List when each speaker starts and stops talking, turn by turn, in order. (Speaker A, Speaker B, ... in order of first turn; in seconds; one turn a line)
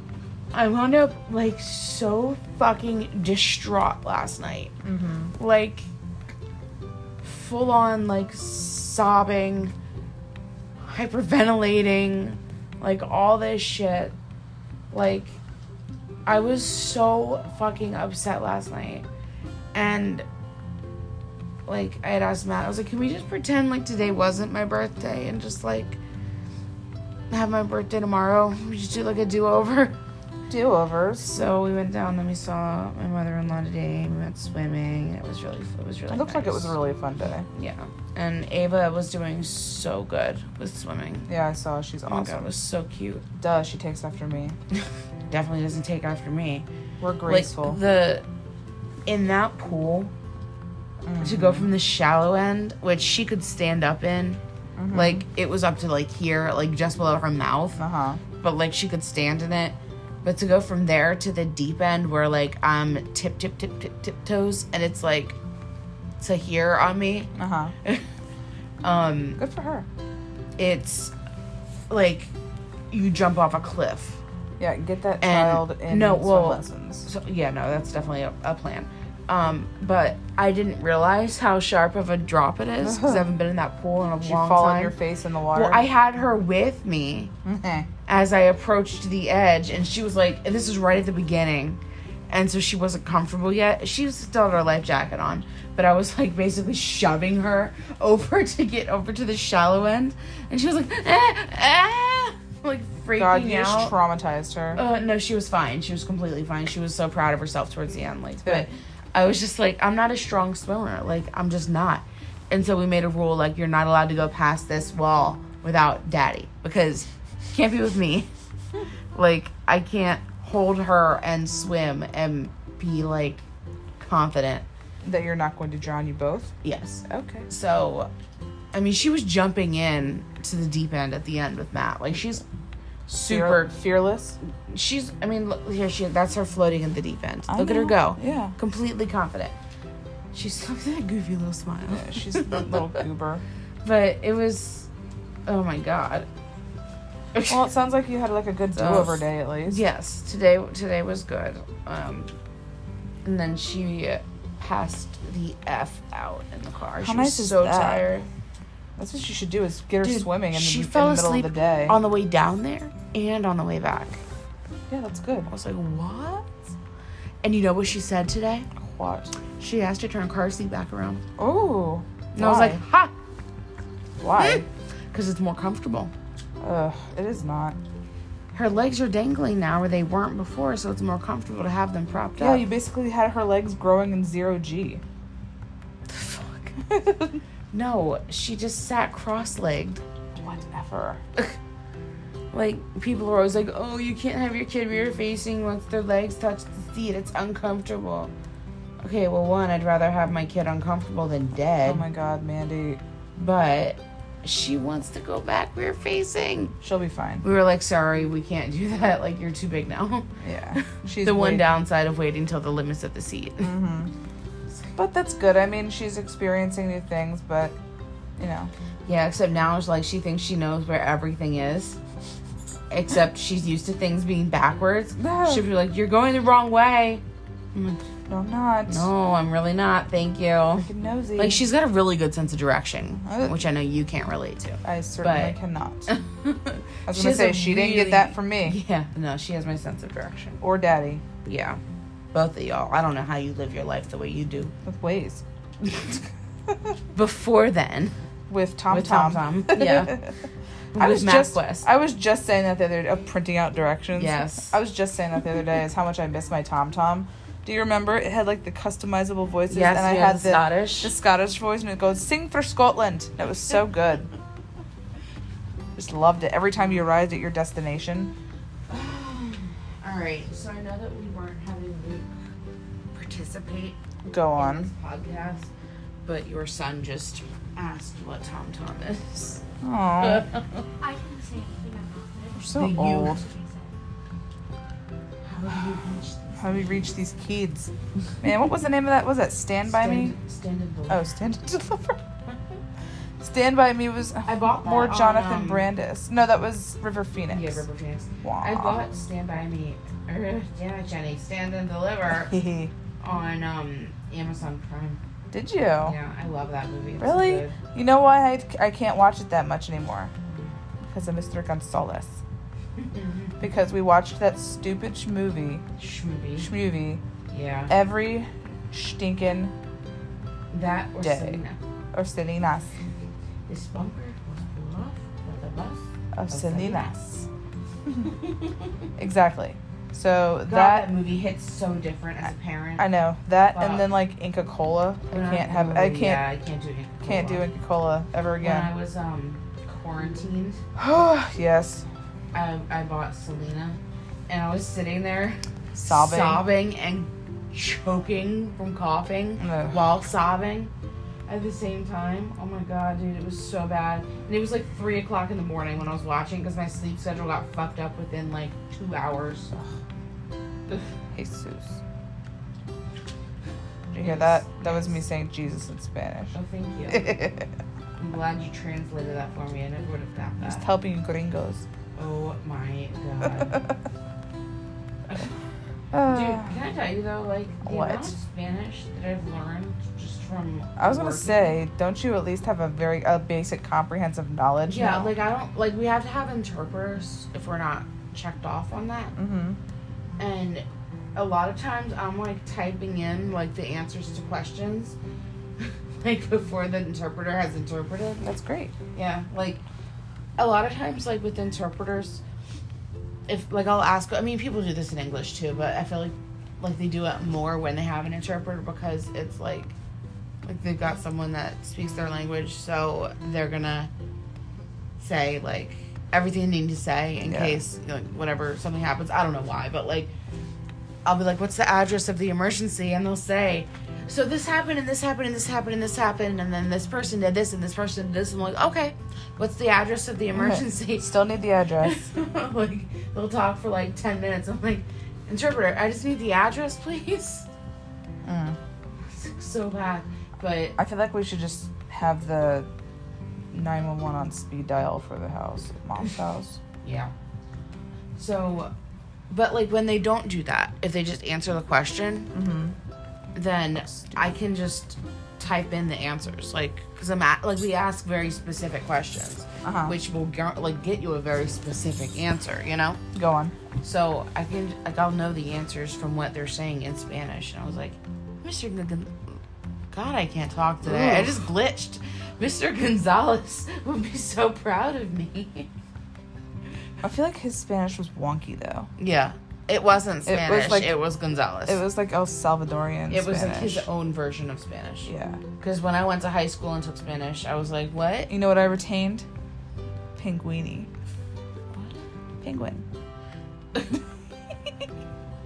Speaker A: 0.5-4.8
Speaker B: 4.8-5.3
Speaker A: 5.3-5.9
Speaker A: 7.2-9.7
Speaker A: 10.8-14.2
Speaker A: 14.9-15.4
Speaker A: 16.3-19.1
Speaker A: 19.7-20.3
Speaker A: 21.7-26.0
Speaker A: 27.3-30.0
Speaker B: 30.5-31.4
Speaker A: 31.2-36.8
Speaker B: 36.1-37.5
Speaker A: 37.5-41.3
Speaker B: 41.3-42.5
Speaker A: 42.1-43.2
Speaker B: 43.4-44.6
Speaker A: 45.3-46.7
Speaker B: 47.0-47.8
Speaker A: 47.2-48.3
Speaker A: 49.1-50.1
Speaker B: 51.1-51.7
Speaker A: 51.2-54.4
Speaker B: 54.8-55.2
Speaker A: 54.9-57.8
Speaker B: 57.8-58.2
Speaker A: 58.4-65.4
Speaker A: 66.2-68.0
Speaker B: 67.4-67.7
Speaker A: 68.8-69.4
Speaker B: 69.4-69.9
Speaker A: 70.6-71.1
Speaker A: 71.9-72.3
Speaker A: 72.9-74.2
Speaker B: 74.6-77.1
Speaker A: 75.2-85.0
Speaker B: 82.8-83.3
Speaker B: 84.2-85.9
Speaker A: 85.5-87.3
Speaker B: 87.5-87.9
Speaker A: 88.1-104.0
Speaker B: 103.2-104.8
Speaker A: 104.8-118.3
Speaker A: 119.1-123.4
Speaker A: 124.0-124.7
Speaker B: 125.0-127.5
Speaker A: 126.6-128.1
Speaker A: 128.7-132.4
Speaker A: 133.1-133.7
Speaker B: 133.2-134.4
Speaker A: 134.4-139.6
Speaker B: 137.5-138.6
Speaker A: 140.3-143.0
Speaker B: 141.9-143.4
Speaker A: 143.8-144.9
Speaker A: 145.5-146.3
Speaker A: 147.3-147.6
Speaker B: 147.5-149.8
Speaker A: 148.7-152.3
Speaker A: 153.2-158.3
Speaker B: 157.0-158.1
Speaker B: 159.0-162.0
Speaker A: 160.0-164.2
Speaker B: 164.9-165.5
Speaker A: 165.5-166.5
Speaker A: 167.4-168.7
Speaker B: 168.8-169.3
Speaker A: 169.6-171.2
Speaker B: 171.4-172.8
Speaker A: 172.3-173.1
Speaker B: 174.2-174.7
Speaker A: 174.4-176.1
Speaker B: 176.6-177.8
Speaker A: 178.5-182.7
Speaker B: 182.4-185.0
Speaker A: 186.1-186.7
Speaker B: 186.9-187.4
Speaker A: 187.7-190.0
Speaker B: 190.4-191.2
Speaker A: 192.5-198.3
Speaker A: 199.0-202.0
Speaker B: 201.8-203.0
Speaker A: 203.4-206.8
Speaker B: 206.8-207.4
Speaker A: 207.4-213.7
Speaker B: 210.4-211.7
Speaker B: 213.6-214.1
Speaker B: 215.0-217.8
Speaker B: 218.4-218.7
Speaker A: 219.1-222.0
Speaker A: 222.9-227.2
Speaker B: 225.2-225.7
Speaker A: 227.7-228.0
Speaker B: 228.3-229.1
Speaker A: 228.9-240.6
Speaker B: 230.8-231.7
Speaker B: 233.2-233.6
Speaker B: 234.8-236.1
Speaker B: 237.1-238.8
Speaker B: 240.6-241.2
Speaker A: 241.4-241.8
Speaker A: 242.3-244.7
Speaker B: 244.8-245.4
Speaker A: 245.8-246.2
Speaker A: 247.1-248.2
Speaker B: 248.5-250.4
Speaker A: 248.9-250.2
Speaker A: 250.9-251.9
Speaker B: 251.0-264.3
Speaker A: 254.2-254.8
Speaker A: 259.7-261.1
Speaker A: 263.6-263.8
Speaker B: 265.9-268.3
Speaker A: 268.9-272.3
Speaker A: 273.1-274.0
Speaker B: 274.3-274.9
Speaker A: 274.5-275.7
Speaker A: 276.2-279.6
Speaker B: 279.8-280.5
Speaker A: 280.2-280.9
Speaker C: 281.0-283.9
Speaker B: 282.6-283.4
Speaker A: 282.7-283.4
Speaker A: 285.4-287.1
Speaker B: 286.6-290.3
Speaker A: 289.9-291.3
Speaker B: 291.1-292.2
Speaker B: 293.4-297.8
Speaker A: 294.4-295.9
Speaker A: 297.5-302.5
Speaker B: 298.4-299.0
Speaker B: 302.5-302.9
Speaker A: 303.2-305.2
Speaker B: 305.5-306.2
Speaker A: 306.0-307.8
Speaker B: 307.2-310.3
Speaker A: 310.5-310.7
Speaker B: 311.1-312.4
Speaker A: 313.0-313.6
Speaker B: 313.6-315.8
Speaker A: 316.0-316.7
Speaker B: 316.6-317.2
Speaker A: 317.5-317.9
Speaker B: 317.9-319.7
Speaker A: 320.7-321.8
Speaker B: 321.2-321.6
Speaker B: 322.1-322.9
Speaker A: 323.7-327.4
Speaker B: 326.3-327.4
Speaker A: 328.2-329.1
Speaker B: 329.2-331.1
Speaker A: 330.6-333.1
Speaker B: 333.0-336.4
Speaker A: 333.7-334.1
Speaker A: 335.3-337.7
Speaker B: 337.3-338.9
Speaker A: 338.6-340.8
Speaker B: 341.0-342.1
Speaker A: 342.5-350.9
Speaker B: 345.9-346.6
Speaker B: 349.6-350.0
Speaker A: 351.5-359.8
Speaker B: 361.3-362.0
Speaker A: 364.1-365.2
Speaker B: 364.1-366.6
Speaker A: 366.5-367.4
Speaker B: 367.1-367.7
Speaker A: 368.2-370.9
Speaker B: 370.6-371.9
Speaker A: 372.2-373.9
Speaker B: 376.1-376.8
Speaker A: 376.2-381.8
Speaker B: 377.8-378.3
Speaker B: 381.0-385.3
Speaker A: 384.9-389.4
Speaker B: 389.4-389.8
Speaker A: 390.4-395.2
Speaker A: 395.8-398.5
Speaker B: 398.4-398.9
Speaker A: 399.1-399.8
Speaker A: 400.6-402.4
Speaker A: 403.5-409.9
Speaker A: 410.6-414.1
Speaker A: 415.2-420.3
Speaker B: 417.5-417.8
Speaker A: 421.2-431.3
Speaker B: 430.5-432.2
Speaker A: 432.0-437.7
Speaker B: 438.4-438.8
Speaker A: 439.2-441.0
Speaker B: 441.0-442.9
Speaker B: 443.7-446.8
Speaker A: 447.0-447.3
Speaker A: 448.4-448.9
Speaker A: 449.5-452.5
Speaker B: 452.5-453.0
Speaker A: 453.6-463.2
Speaker B: 454.1-454.3
Speaker B: 459.8-460.1
Speaker B: 463.3-463.8
Speaker A: 464.0-469.6
Speaker A: 470.1-475.9
Speaker B: 471.0-471.6
Speaker B: 477.2-479.1
Speaker A: 479.2-482.0
Speaker B: 480.5-481.2
Speaker B: 481.9-484.1
Speaker A: 483.3-488.5
Speaker B: 485.3-485.6
Speaker B: 488.5-489.5
Speaker B: 490.4-491.1
Speaker A: 491.9-492.2
Speaker B: 492.6-493.1